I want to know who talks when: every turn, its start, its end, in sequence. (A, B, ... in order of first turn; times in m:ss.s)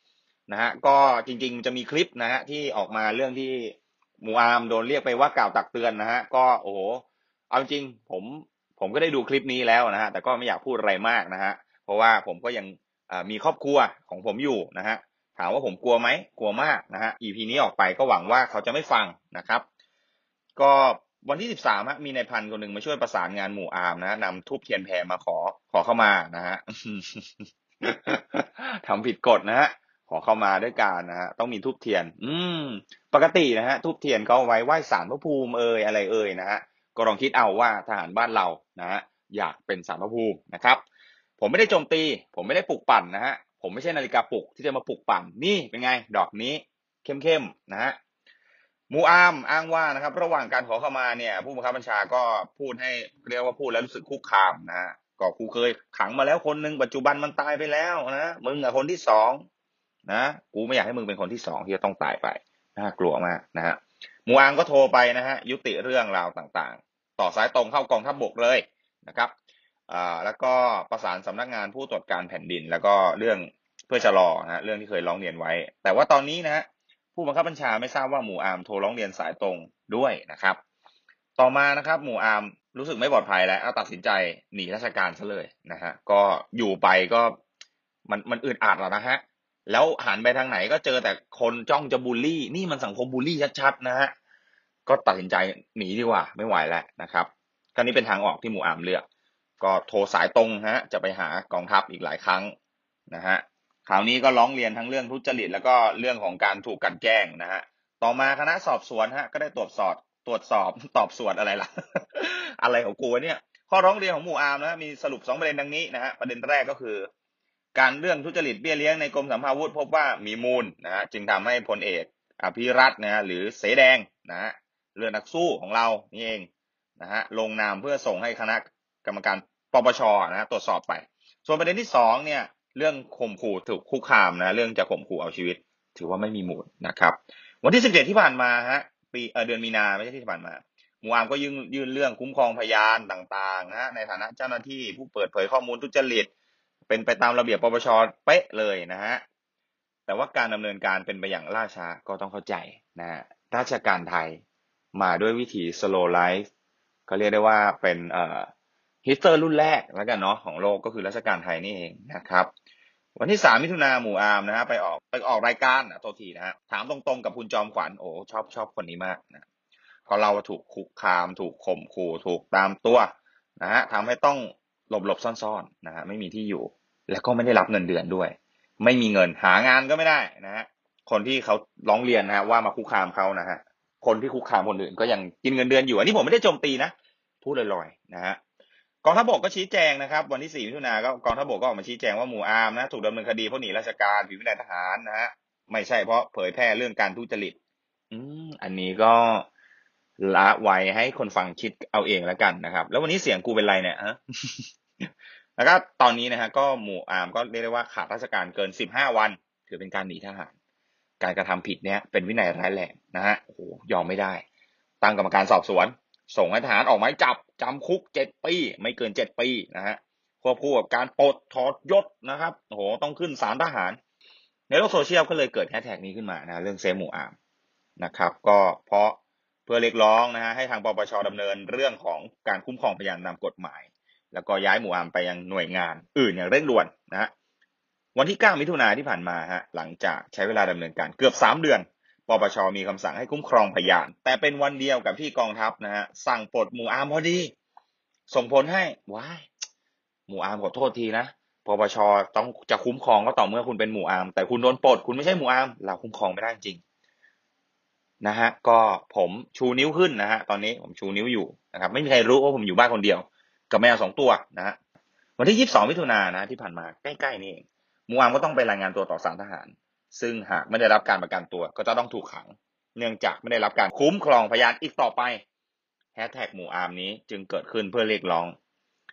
0:00.5-0:19.6 A
0:20.6-0:40.8 A
0:41.4-0:48.0 A
0:48.9-0:59.4 A
1:00.1-1:09.3 A
1:09.9-1:20.6 A
1:21.4-1:27.4 A
1:28.1-1:34.1 A
1:34.8-1:39.0 A
1:39.6-1:42.5 A
1:43.1-1:57.1 A
1:57.7-2:06.5 A
2:07.0-2:26.3 A
2:26.9-2:29.2 A
2:30.1-2:34.4 A
2:34.9-2:36.5 A
2:37.1-2:38.5 A
2:39.0-2:42.5 A
2:43.2-2:49.4 A
2:50.1-3:08.4 A
3:09.0-3:17.6 A
3:18.1-3:19.5 A
3:20.2-3:30.5 A
3:31.2-3:34.4 A
3:35.0-3:44.0 A
3:44.7-3:47.3 A
3:48.0-3:57.3 A
3:58.1-4:07.5 A
4:08.3-4:09.4 A
4:10.3-4:16.8 A
4:18.2-4:24.8 A
4:25.4-4:35.4 A
4:36.1-4:38.5 A